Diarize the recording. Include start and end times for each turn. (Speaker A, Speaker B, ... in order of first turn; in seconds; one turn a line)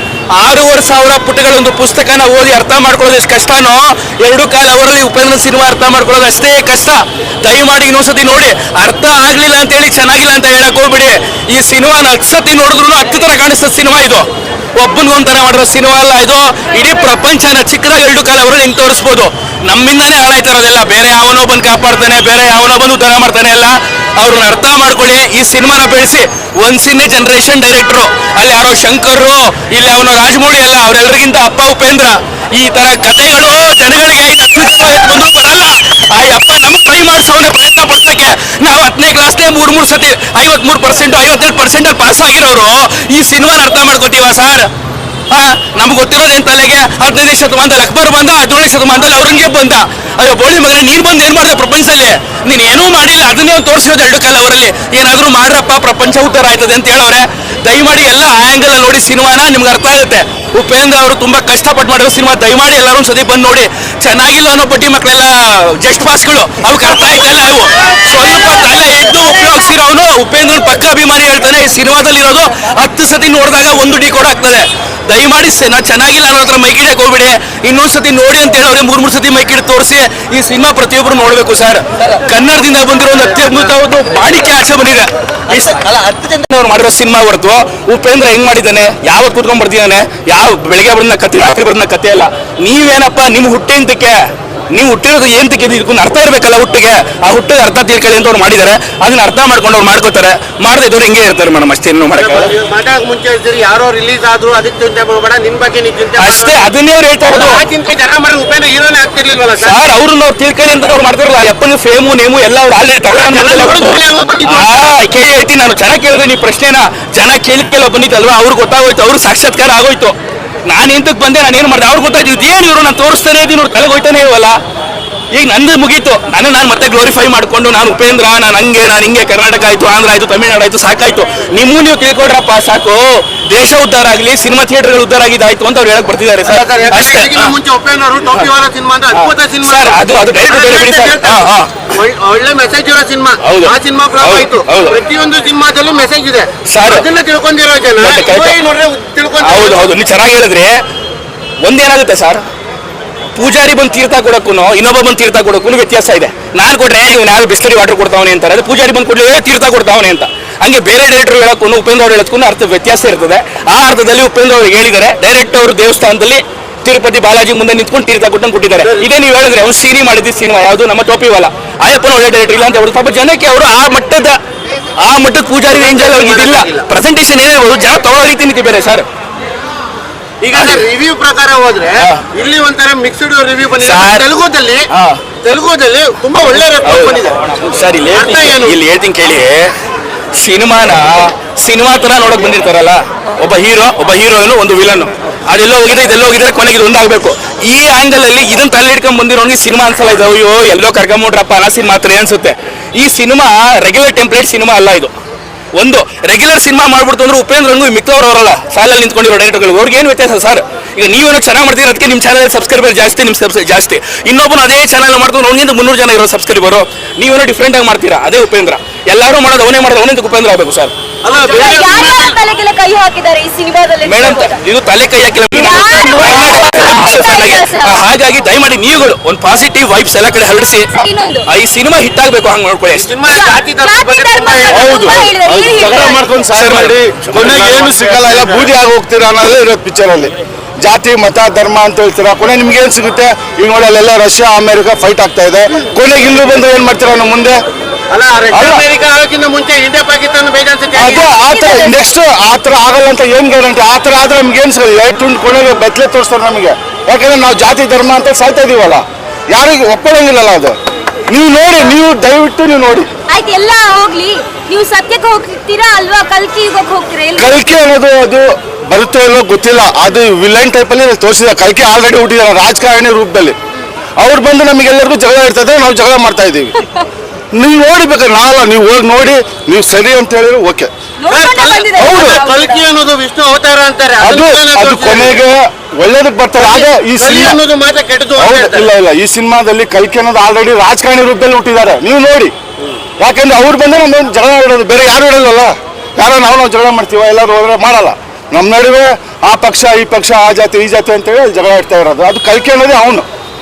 Speaker A: 0.3-44.7
Speaker A: 45.3-94.2
Speaker A: 94.7-102.5
Speaker B: 102.2-106.7
Speaker A: 106.2-107.6
Speaker B: 107.3-109.8
Speaker A: 109.6-124.6
Speaker B: 113.1-114.7
Speaker A: 125.3-137.5
Speaker B: 136.5-149.9
Speaker A: 139.1-141.9
Speaker A: 143.4-145.0
Speaker A: 146.7-147.1
Speaker A: 148.0-148.6
Speaker A: 149.4-150.8
Speaker A: 151.6-152.4
Speaker A: 153.3-174.4
Speaker B: 168.8-169.1
Speaker A: 175.0-179.1
Speaker B: 175.7-176.9
Speaker B: 180.4-184.9
Speaker A: 180.5-180.8
Speaker A: 182.0-182.2
Speaker A: 183.8-184.3
Speaker A: 184.9-185.2
Speaker B: 185.4-187.4
Speaker A: 186.7-189.7
Speaker B: 188.1-188.8
Speaker A: 190.3-205.1
Speaker A: 205.7-220.9
Speaker B: 221.2-222.4
Speaker C: 221.5-224.6
Speaker A: 224.1-233.2
Speaker C: 225.5-228.0
Speaker C: 230.9-231.5
Speaker B: 232.9-235.3
Speaker C: 233.3-236.3
Speaker D: 234.7-240.3
Speaker A: 236.5-237.0
Speaker B: 237.3-238.7
Speaker D: 240.8-247.6
Speaker B: 248.1-251.3
Speaker D: 248.5-248.8
Speaker D: 250.9-260.8
Speaker C: 251.4-251.9
Speaker D: 261.3-263.1
Speaker C: 263.3-267.7
Speaker D: 267.4-273.6
Speaker D: 274.2-276.7
Speaker D: 277.5-280.9
Speaker C: 281.2-282.8
Speaker B: 281.3-285.4
Speaker D: 282.0-282.4
Speaker D: 284.2-287.6
Speaker B: 286.6-288.9
Speaker D: 288.4-292.5
Speaker D: 293.2-303.3